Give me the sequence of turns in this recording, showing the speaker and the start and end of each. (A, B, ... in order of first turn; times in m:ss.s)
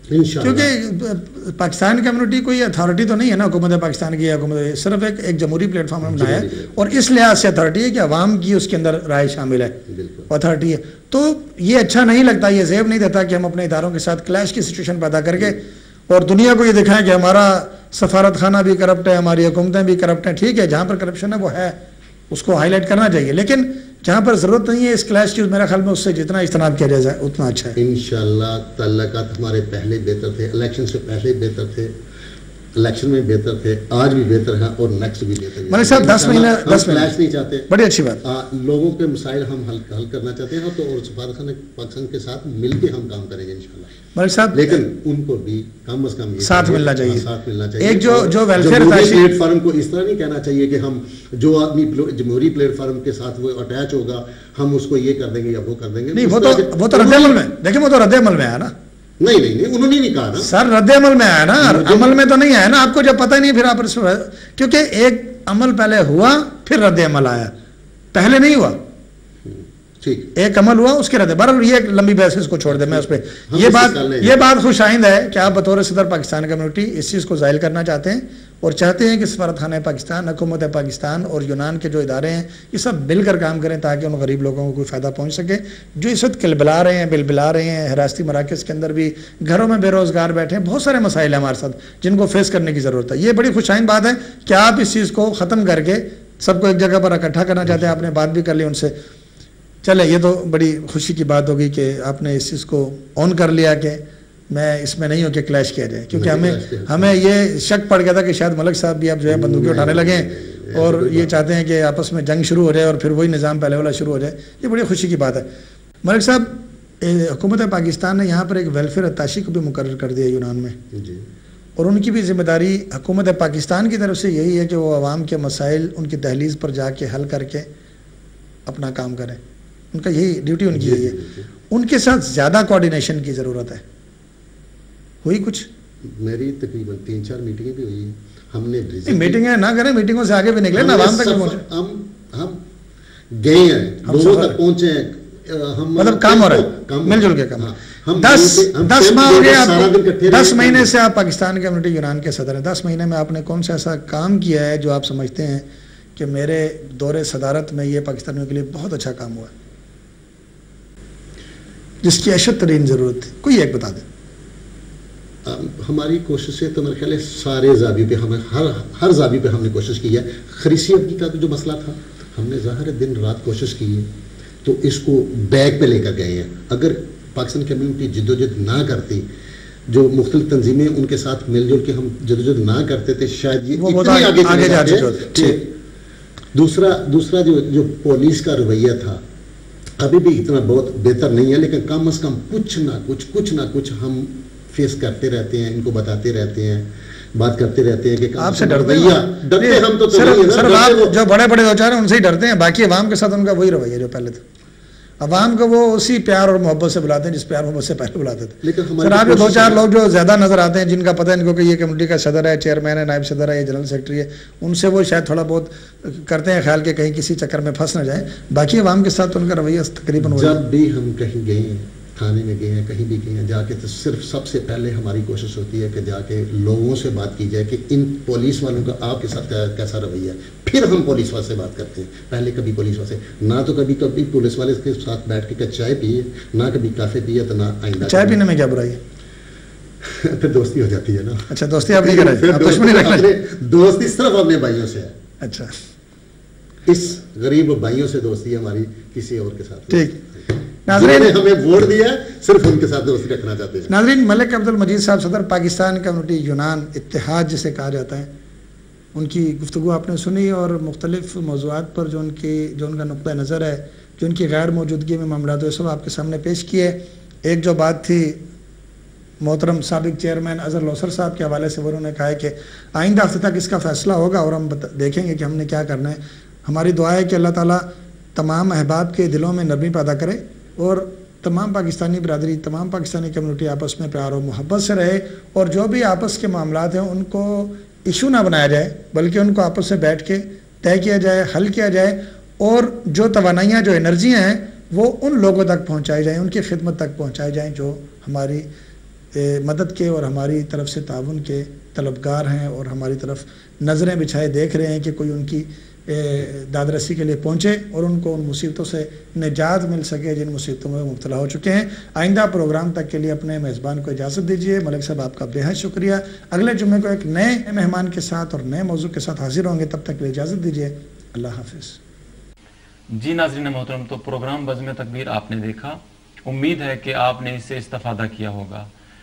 0:00.1-0:00.7 A
0:00.4-0:09.8 B
0:06.0-0:06.8 A
0:09.9-0:10.3 A
0:10.3-0:21.8 B
0:22.3-0:27.8 B
0:27.7-0:31.9 A
0:32.7-0:37.7 A
0:35.7-0:37.2 B
0:37.7-0:38.2 B
0:38.2-0:43.9 A
0:44.1-0:44.8 B
0:44.5-0:57.4 A
0:46.4-0:47.3 B
0:47.8-0:49.3 B
0:56.1-0:58.7 B
0:59.2-1:00.5 A
1:00.3-1:07.5 B
1:01.6-1:02.2 A
1:08.1-1:08.8 B
1:09.4-1:10.3 A
1:10.3-1:39.0 B
1:12.7-1:14.4 A
1:37.6-1:38.0 A
1:39.8-1:55.5 B
1:46.1-1:47.2 A
1:49.2-1:51.4 A
1:56.0-2:00.8 B
2:00.9-2:01.3 A
2:01.8-2:07.7 B
2:08.6-2:09.4 B
2:09.9-2:11.2 B
2:10.7-2:11.5 A
2:11.7-2:13.8 B
2:15.2-2:15.7 B
2:16.0-2:19.4 A
2:19.0-2:21.6 B
2:20.7-2:22.6 A
2:23.3-2:30.9 A
2:24.0-2:24.6 B
2:26.0-2:39.5 B
2:42.0-2:44.0 B
2:45.4-2:54.1 A
2:54.6-2:59.2 A
2:59.9-3:05.7 A
3:03.7-3:05.6 B
3:06.5-3:09.2 A
3:10.0-3:21.2 A
3:18.4-3:24.4 B
3:25.2-3:40.6 B
3:28.6-3:29.8 A
3:40.2-3:58.4 A
3:58.0-3:59.0 B
4:00.0-4:05.1 A
4:01.5-4:03.3 B
4:05.4-4:05.8 B
4:06.8-4:13.9 A
4:09.9-4:10.2 B
4:10.8-4:11.4 B
4:13.9-4:18.3 B
4:19.1-4:28.4 B
4:29.4-4:58.7 B
4:59.3-5:22.0 B
5:23.1-5:28.9 C